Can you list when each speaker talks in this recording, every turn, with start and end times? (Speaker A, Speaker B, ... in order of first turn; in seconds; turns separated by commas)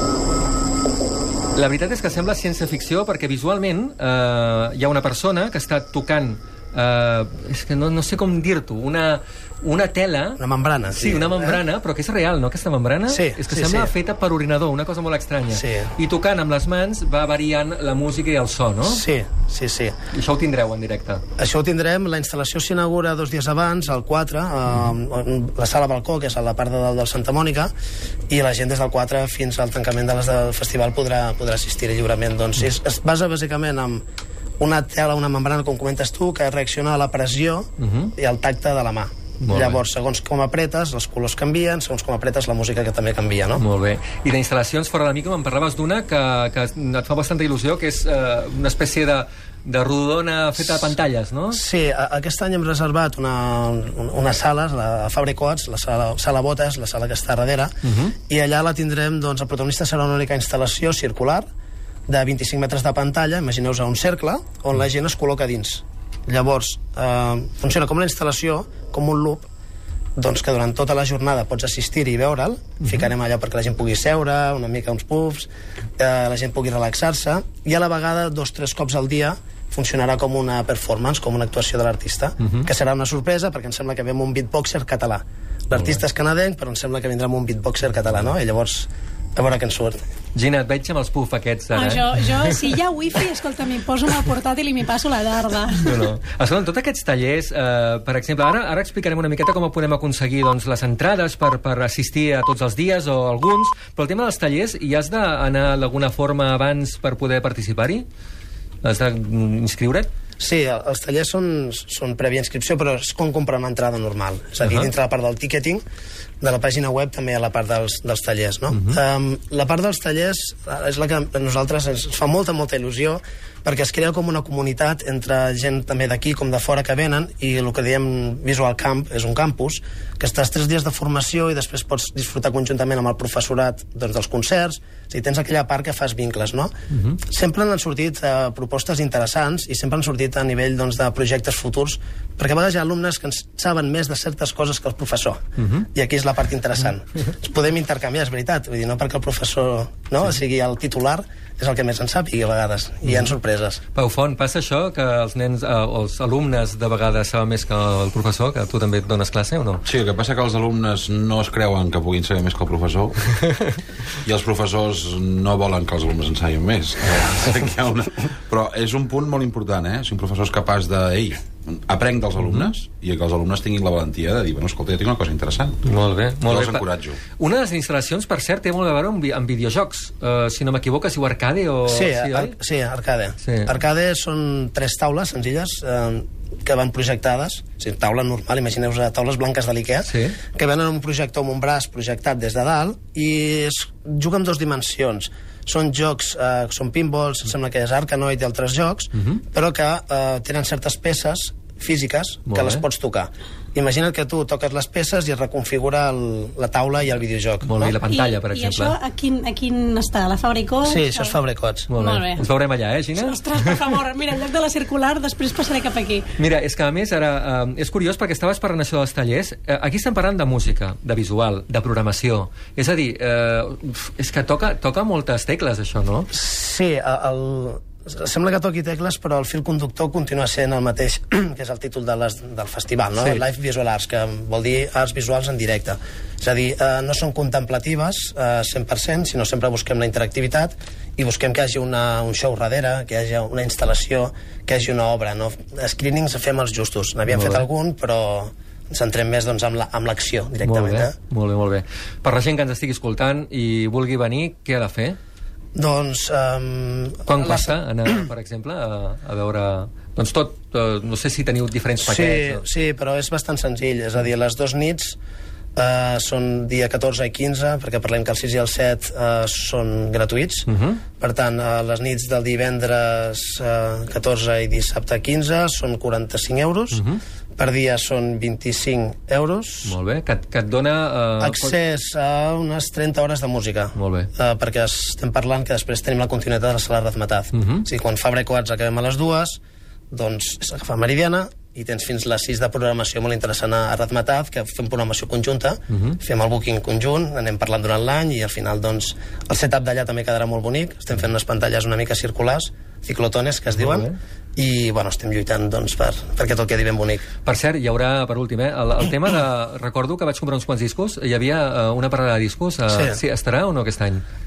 Speaker A: 1.5-10.4, Speaker B: 10.4-11.6, Speaker A: 10.9-19.0, Speaker B: 13.1-13.9, Speaker B: 15.5-15.9, Speaker B: 18.8-19.9, Speaker A: 20.1-21.2, Speaker B: 21.4-27.7, Speaker B: 28.3-34.0, Speaker B: 34.6-43.6, Speaker A: 37.8-38.1, Speaker A: 39.4-39.8, Speaker A: 43.6-51.6, Speaker B: 51.5-57.7, Speaker A: 57.8-58.1, Speaker B: 58.3-61.4, Speaker B: 62.1-69.5, Speaker B: 70.2-90.0, Speaker A: 90.3-92.7, Speaker C: 91.8-95.9, Speaker A: 95.8-108.1, Speaker A: 108.8-110.1, Speaker B: 110.4-115.8, Speaker B: 116.4-145.4, Speaker A: 145.6-145.8, Speaker B: 145.9-153.8, Speaker A: 153.1-153.3, Speaker A: 153.9-159.8, Speaker D: 159.9-163.5, Speaker D: 164.2-175.8, Speaker A: 175.8-176.8, Speaker D: 176.4-177.2, Speaker A: 177.4-182.5, Speaker B: 181.9-207.9, Speaker A: 183.4-183.7, Speaker A: 190.1-190.4, Speaker A: 202.5-202.8, Speaker A: 207.6-209.0, Speaker C: 208.1-211.4, Speaker B: 210.8-211.9, Speaker A: 211.9-213.7, Speaker C: 212.0-212.4, Speaker C: 213.2-216.2, Speaker A: 216.4-226.3, Speaker B: 226.3-251.2, Speaker A: 247.3-247.7, Speaker A: 250.6-255.2, Speaker B: 255.8-258.3, Speaker A: 257.3-262.6, Speaker B: 262.0-265.2, Speaker B: 265.8-270.7, Speaker A: 270.7-271.0, Speaker B: 271.2-277.0, Speaker A: 276.9-277.2, Speaker B: 277.6-280.0, Speaker A: 279.9-281.8, Speaker B: 281.4-289.6, Speaker A: 283.9-284.3, Speaker A: 287.5-287.9, Speaker B: 290.1-307.3, Speaker A: 295.9-296.2, Speaker A: 303.8-304.1, Speaker A: 307.4-314.2, Speaker B: 312.9-313.2